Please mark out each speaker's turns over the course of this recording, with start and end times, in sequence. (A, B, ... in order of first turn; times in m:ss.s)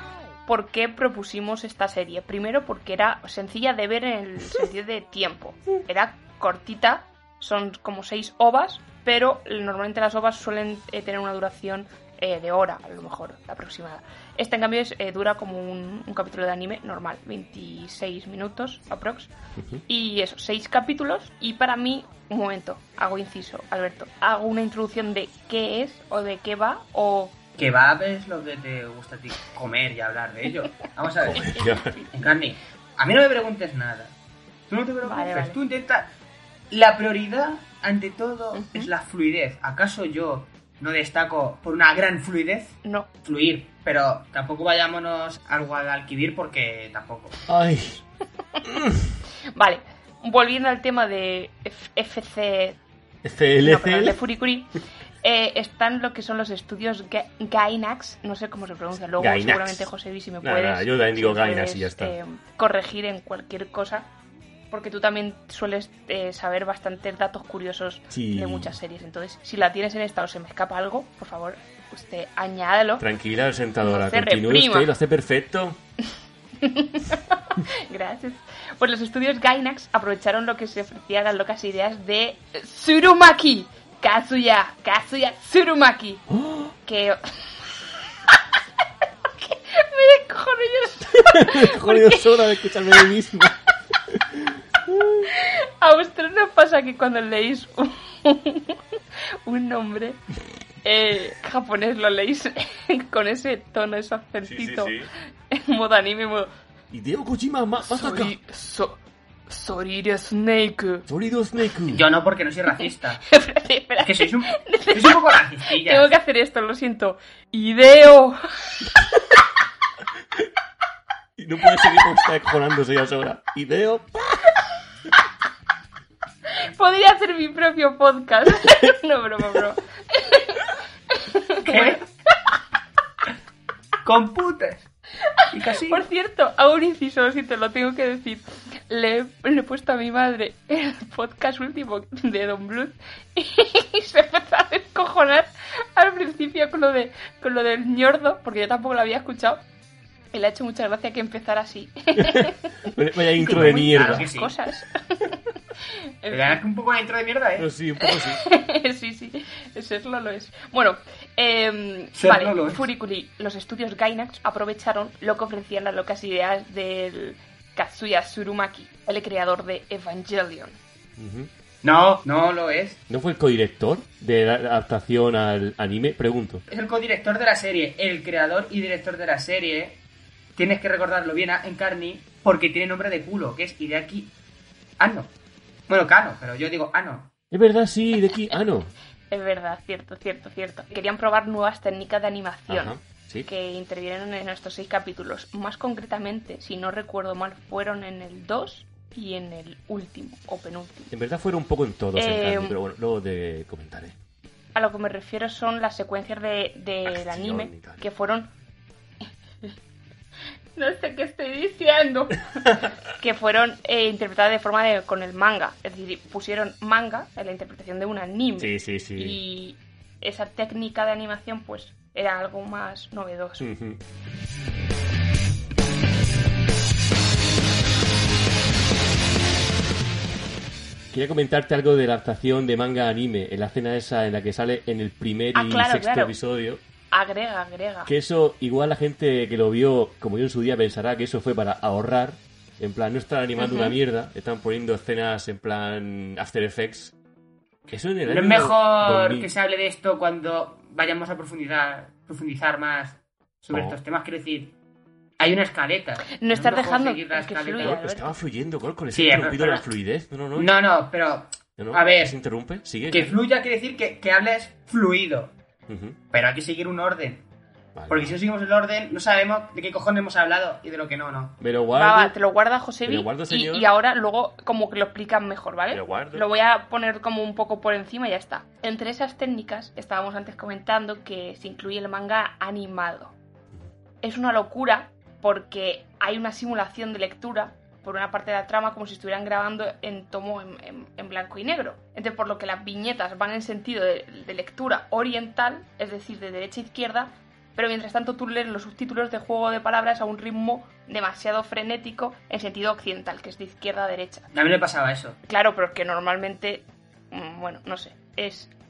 0:00.5-0:19.3 A
0:19.6-0:19.8 B
0:19.9-0:27.4 A
0:27.6-0:34.2 C
0:31.2-0:32.0 B
0:34.7-0:36.1 C
0:35.0-0:35.6 A
0:36.7-0:47.4 C
0:38.6-0:38.9 A
0:47.5-0:48.0 B
0:48.6-0:49.1 B
0:49.6-0:52.8 A
0:53.2-0:54.2 B
0:53.6-0:54.7 A
0:55.2-1:04.1 A
0:59.2-0:59.9 B
1:00.4-1:02.2 B
1:04.7-1:13.1 A
1:08.1-1:08.8 B
1:13.0-1:15.8 B
1:13.8-1:14.9 A
1:16.6-1:26.3 A
1:26.3-1:26.7 B
1:26.8-1:27.3 A
1:29.4-1:33.0 A
1:31.2-1:33.6 B
1:34.1-1:35.3 B
1:35.3-1:38.8 A
1:39.4-1:40.2 A
1:40.8-1:45.0 A
1:44.4-1:45.1 B
1:45.5-1:46.5 A
1:46.9-1:48.4 B
1:47.8-1:51.1 A
1:51.1-1:52.0 B
1:51.9-1:53.2 C
1:53.3-1:58.9 A
1:54.0-1:56.1 C
2:01.4-2:04.6 B
2:06.6-2:12.0 A
2:11.6-2:12.0 C
2:14.0-2:14.9 C
2:15.4-2:29.6 A
2:15.5-2:16.1 C
2:30.3-2:35.4 A
2:32.2-2:34.3 B
2:33.4-2:34.5 C
2:36.2-2:36.6 A
2:36.3-2:37.7 C
2:37.6-2:38.4 B
2:38.0-2:50.8 A
2:42.2-2:42.9 C
2:51.2-2:51.5 B
2:51.8-2:53.0 C
2:53.1-2:56.6 B
2:56.7-3:00.0 C
3:00.6-3:04.3 C
3:05.0-3:05.3 C
3:05.9-3:07.3 C
3:07.5-3:08.9 B
3:09.3-3:21.2 A
3:12.7-3:13.5 B
3:21.1-3:24.2 B
3:22.2-3:22.8 A
3:24.8-3:28.5 A
3:27.1-3:28.0 B
3:30.8-3:43.7 A
3:38.6-3:39.4 B
3:43.6-3:44.0 B
3:51.1-3:56.8 B
3:55.6-3:56.4 A
3:57.1-3:58.1 A
3:58.1-4:07.2 B
4:03.6-4:04.0 A
4:07.9-4:09.5 B
4:08.3-4:14.8 C
4:13.7-4:14.0 B
4:15.4-4:18.0 C
4:16.3-4:18.4 A
4:17.8-4:20.7 B
4:19.1-4:19.9 C
4:20.6-4:22.3 C
4:21.8-4:23.4 B
4:23.1-4:25.6 C
4:25.9-4:26.2 B
4:26.3-4:27.4 C
4:28.0-4:28.4 B
4:28.1-4:31.6 C
4:31.6-4:32.4 B
4:31.9-4:43.4 A
4:33.1-4:33.9 B
4:35.9-4:36.5 B
4:44.2-5:04.5 A
5:04.5-5:05.4 C
5:05.5-5:08.8 A